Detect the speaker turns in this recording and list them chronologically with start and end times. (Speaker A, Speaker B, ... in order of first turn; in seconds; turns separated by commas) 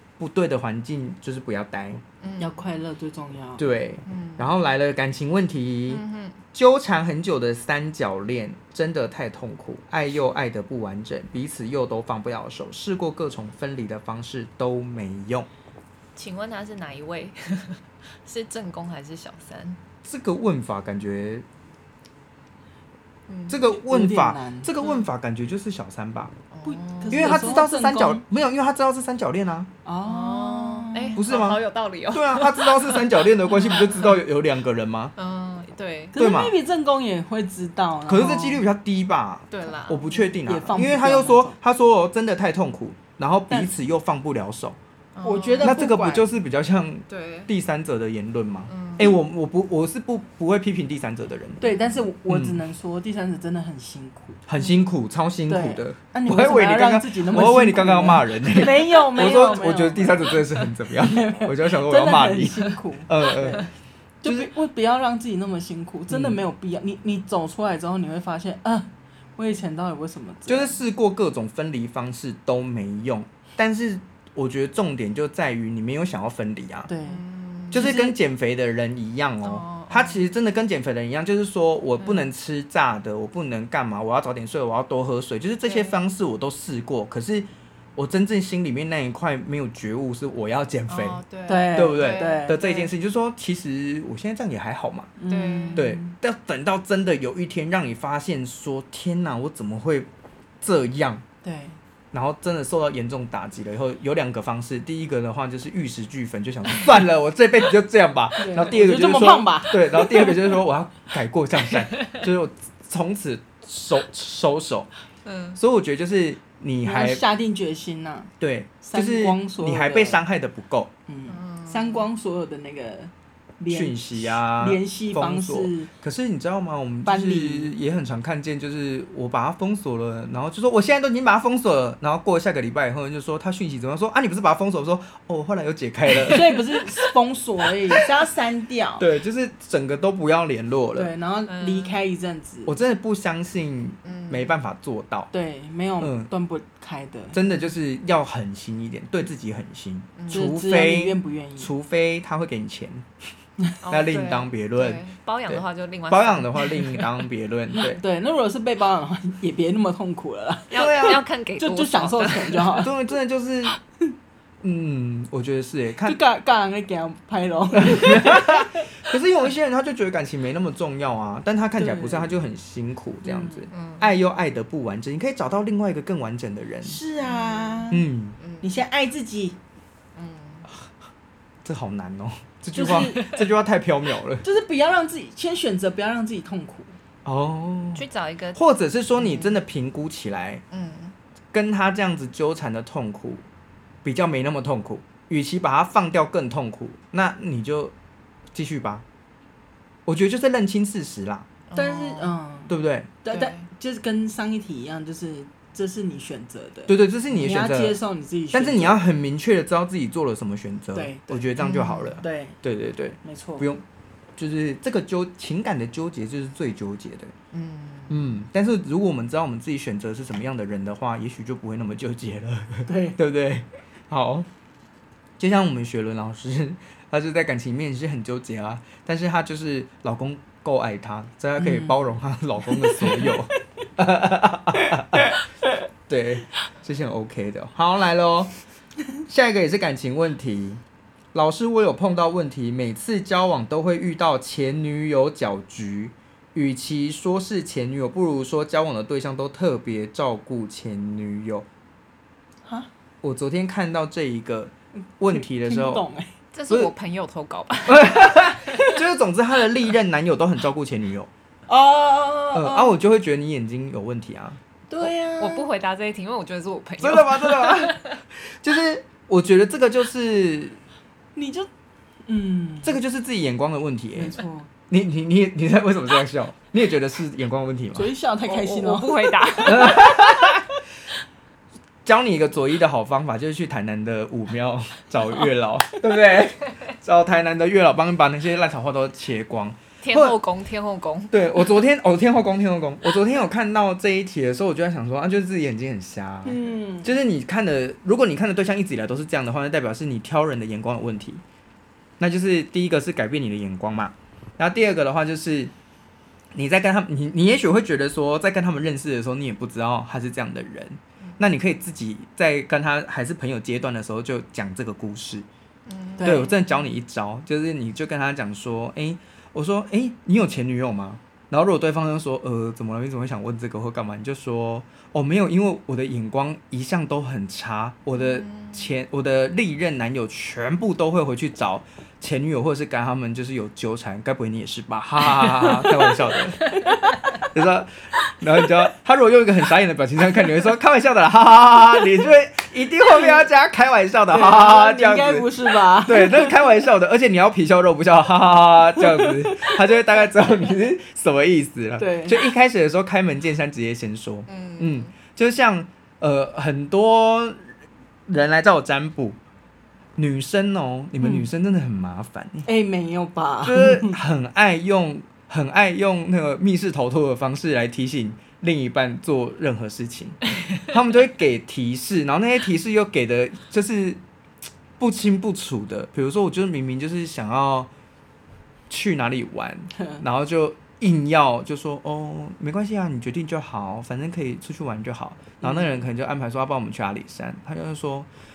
Speaker A: 0.2-2.0, Speaker B: 2.2-2.6, Speaker C: 2.4-3.6, Speaker A: 3.6-15.5, Speaker B: 4.0-4.5, Speaker B: 5.9-6.4, Speaker B: 16.2-19.8, Speaker A: 20.0-21.4, Speaker B: 23.3-23.6, Speaker A: 23.5-26.3, Speaker C: 23.8-24.7, Speaker B: 24.8-25.1, Speaker B: 26.5-27.4, Speaker C: 26.6-28.2, Speaker A: 27.1-29.7, Speaker C: 29.9-31.2, Speaker B: 30.0-34.2, Speaker A: 31.1-35.1, Speaker B: 35.2-36.2, Speaker C: 36.1-38.6, Speaker A: 36.2-36.6, Speaker A: 38.1-44.8, Speaker B: 39.5-40.3, Speaker C: 40.4-41.6, Speaker B: 45.1-45.8, Speaker C: 45.2-46.4, Speaker A: 45.6-51.6, Speaker B: 47.1-47.5, Speaker B: 48.7-49.1, Speaker C: 51.6-54.5, Speaker B: 51.6-52.0, Speaker A: 52.3-52.6, Speaker A: 54.5-63.7, Speaker C: 55.5-63.7, Speaker C: 64.2-70.8, Speaker A: 64.2-64.5, Speaker A: 66.1-66.4, Speaker A: 70.5-76.9, Speaker C: 76.9-77.2, Speaker B: 77.0-77.9, Speaker A: 77.7-95.1, Speaker C: 77.7-78.2, Speaker B: 79.4-80.2, Speaker B: 82.0-82.3, Speaker B: 85.6-86.0, Speaker B: 90.9-92.9, Speaker C: 91.5-92.6, Speaker C: 95.2-96.1, Speaker B: 95.3-95.9, Speaker A: 95.8-100.1, Speaker A: 100.6-101.2, Speaker C: 101.4-101.8, Speaker A: 102.1-114.9, Speaker C: 108.4-110.5, Speaker B: 115.2-115.6, Speaker A: 115.6-117.2, Speaker C: 116.8-118.3, Speaker A: 118.4-120.9, Speaker C: 118.8-120.2, Speaker C: 121.1-125.9, Speaker B: 121.3-122.1, Speaker A: 123.7-136.7, Speaker C: 127.0-127.8, Speaker C: 136.2-139.1, Speaker A: 137.6-138.1, Speaker A: 139.0-141.1, Speaker C: 140.9-142.8, Speaker B: 141.5-142.0, Speaker A: 142.7-145.3, Speaker B: 144.1-144.6, Speaker C: 145.3-147.4, Speaker A: 146.0-146.3, Speaker A: 147.3-153.1, Speaker B: 150.2-150.6, Speaker C: 150.3-151.7, Speaker B: 153.8-157.2, Speaker A: 153.9-158.0, Speaker C: 157.7-162.9, Speaker B: 160.7-162.9, Speaker A: 160.7-161.2, Speaker A: 162.8-163.8, Speaker A: 164.6-166.2, Speaker C: 166.0-168.8, Speaker A: 167.8-177.0, Speaker C: 171.8-172.3, Speaker C: 173.2-173.7, Speaker B: 173.7-174.1, Speaker C: 176.8-178.1, Speaker B: 177.2-177.9, Speaker A: 177.9-178.4, Speaker B: 178.4-178.7, Speaker C: 178.6-179.6, Speaker B: 180.2-180.7, Speaker A: 181.6-184.4, Speaker C: 182.8-183.3, Speaker B: 182.9-183.4, Speaker C: 184.4-187.0, Speaker A: 187.2-190.6, Speaker B: 187.9-188.6, Speaker B: 189.2-189.6, Speaker B: 190.7-191.2, Speaker A: 191.5-193.4, Speaker A: 194.0-197.9, Speaker A: 198.5-199.1, Speaker A: 200.1-201.5, Speaker B: 201.7-202.4, Speaker C: 201.8-209.0, Speaker A: 202.7-203.1, Speaker B: 203.3-203.7, Speaker A: 206.9-208.0, Speaker A: 208.5-213.8, Speaker C: 210.9-211.5, Speaker B: 211.6-212.2, Speaker C: 212.2-212.6, Speaker C: 213.2-213.7, Speaker A: 214.4-217.3, Speaker B: 217.5-218.4, Speaker A: 218.1-224.5, Speaker C: 222.9-223.2, Speaker A: 225.4-235.4, Speaker C: 231.6-232.0, Speaker C: 232.7-233.3, Speaker C: 234.8-235.7, Speaker A: 236.1-238.5, Speaker A: 239.3-240.8, Speaker A: 241.3-251.7, Speaker A: 253.2-256.0, Speaker C: 255.3-256.3, Speaker B: 256.5-258.6, Speaker A: 257.9-261.3, Speaker C: 261.7-263.0, Speaker A: 262.5-264.6, Speaker C: 264.9-265.7, Speaker B: 265.4-268.2, Speaker A: 267.0-270.8, Speaker C: 271.4-271.7, Speaker C: 272.3-273.0, Speaker A: 272.8-274.4, Speaker C: 274.2-274.7, Speaker A: 274.9-278.1, Speaker C: 277.9-280.7, Speaker B: 278.4-280.1, Speaker A: 279.7-280.6, Speaker A: 282.0-290.4, Speaker B: 290.0-291.8, Speaker A: 291.3-301.4, Speaker C: 296.4-297.1, Speaker A: 302.2-305.7, Speaker A: 306.5-315.5, Speaker B: 315.9-316.8, Speaker C: 316.2-316.5, Speaker A: 316.2-336.7, Speaker B: 328.2-328.9, Speaker C: 336.8-337.1, Speaker A: 337.4-357.6, Speaker C: 343.1-343.4, Speaker C: 344.3-346.6, Speaker C: 349.0-349.8, Speaker C: 352.0-352.5, Speaker B: 354.5-355.1, Speaker A: 358.3-359.4, Speaker A: 360.2-362.7, Speaker C: 361.2-361.5, Speaker C: 362.7-364.2, Speaker A: 363.6-374.2, Speaker A: 375.0-377.9, Speaker A: 378.9-388.3, Speaker C: 379.9-380.2, Speaker C: 385.6-386.0